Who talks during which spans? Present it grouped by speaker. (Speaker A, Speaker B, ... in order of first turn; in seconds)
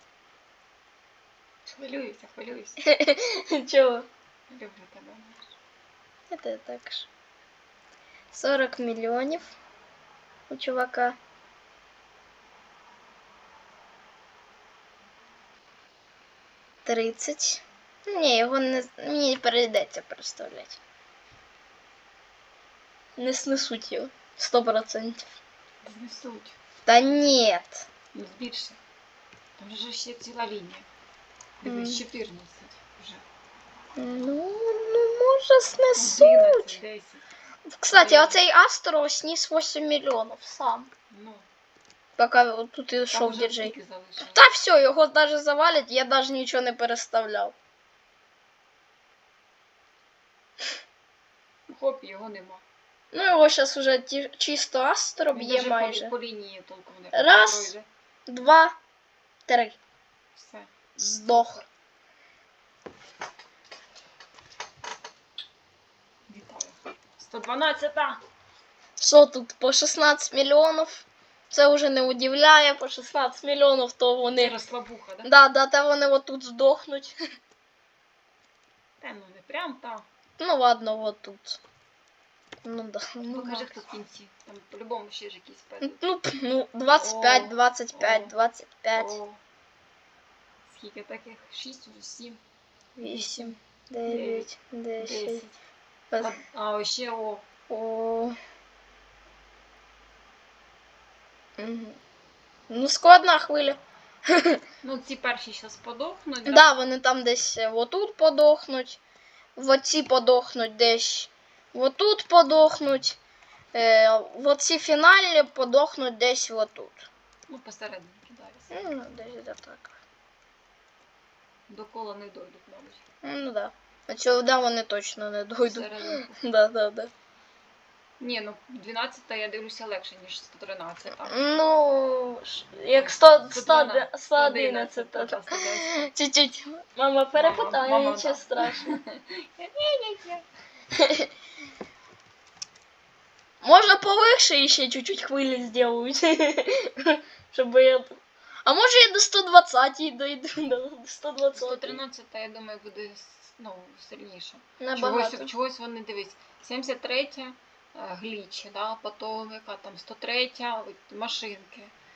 Speaker A: 1.6-2.8, 4.5-5.5, 25.8-26.5, 28.1-28.8, 29.6-30.9, 31.6-33.2, 35.9-37.2, 37.9-38.4, 41.1-41.5, 43.1-44.4, 51.7-52.6, 55.3-57.9, 60.3-60.7, 66.3-68.2, 74.3-75.3, 79.0-80.1, 83.3-86.0, 87.0-88.3, 88.9-89.4, 90.7-92.4, 93.0-95.5, 96.2-97.4, 104.8-106.7, 117.5-119.0, 121.7-123.0, 125.6-126.3, 128.2-131.4, 132.9-136.1, 137.3-140.4, 151.5-161.9
Speaker B: 2.8-4.1, 6.3-7.1, 8.3-9.5, 10.5-11.2, 16.8-20.8, 23.2-25.3, 26.9-27.9, 31.6-32.0, 34.0-36.8, 37.7-40.9, 42.2-47.5, 53.1-56.1, 57.1-57.7, 58.3-58.7, 59.5-59.8, 61.0-61.6, 69.0-74.5, 75.2-77.2, 80.4-81.6, 82.6-83.8, 85.8-89.1, 93.0-95.4, 97.7-98.4, 101.6-102.0, 102.7-104.6, 106.4-109.0, 109.5-113.2, 113.7-117.1, 118.7-119.9, 123.2-127.1, 131.2-138.9, 141.0-141.3, 143.6-152.0, 154.8-155.5